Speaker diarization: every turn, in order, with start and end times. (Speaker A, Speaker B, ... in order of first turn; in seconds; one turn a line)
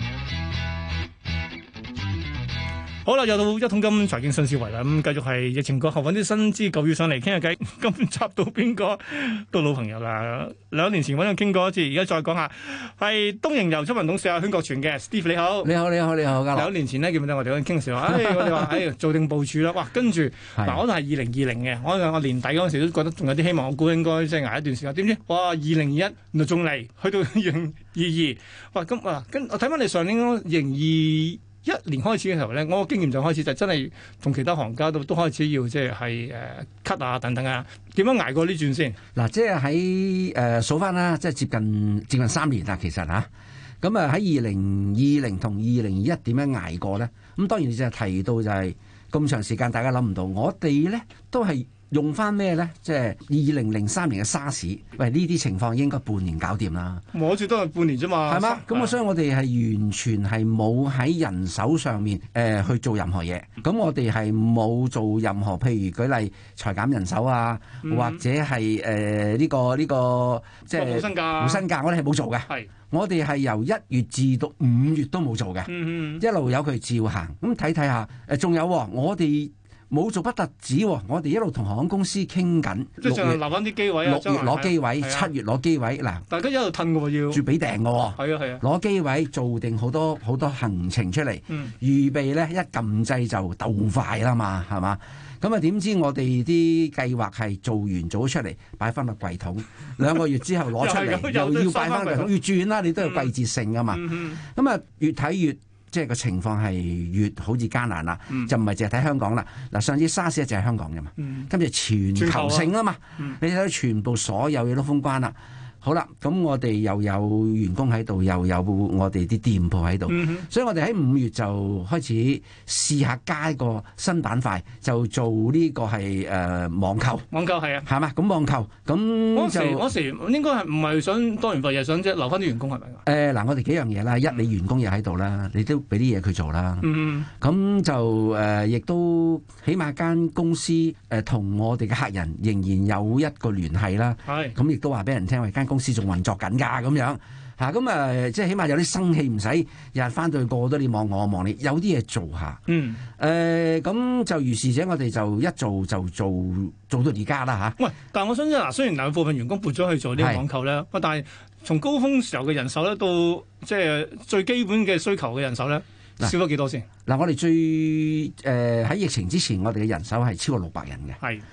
Speaker A: 3.0-15.7
Speaker B: 15.6-16.7
Speaker A: 16.5-39.0
Speaker B: 20.6-20.8
Speaker B: 39.1-43.3
Speaker B: 43.8-57.0
Speaker A: 57.1-59.0
Speaker B: 58.3-83.5
Speaker A: 67.8-68.2
Speaker A: 70.7-71.7
Speaker A: 75.7-76.2
Speaker A: 83.0-85.3
Speaker B: 84.0-86.2
Speaker A: 86.3-87.4
Speaker B: 87.3-127.3
Speaker A: 88.2-88.6
Speaker A: 100.8-102.3
Speaker A: 103.0-103.3
Speaker A: 103.9-104.4
Speaker A: 111.2-111.5
Speaker A: 112.1-113.4
Speaker A: 120.1-120.5
Speaker A: 127.3-127.9
Speaker B: 127.8-129.9
Speaker A: 129.3-133.0
Speaker B: 133.0-152.6
Speaker A: 136.8-137.3
Speaker A: 144.2-144.6
Speaker A: 152.7-153.0
Speaker B: 153.2-157.8
Speaker A: 157.8-166.9
Speaker B: 160.2-160.4
Speaker B: 167.1-171.2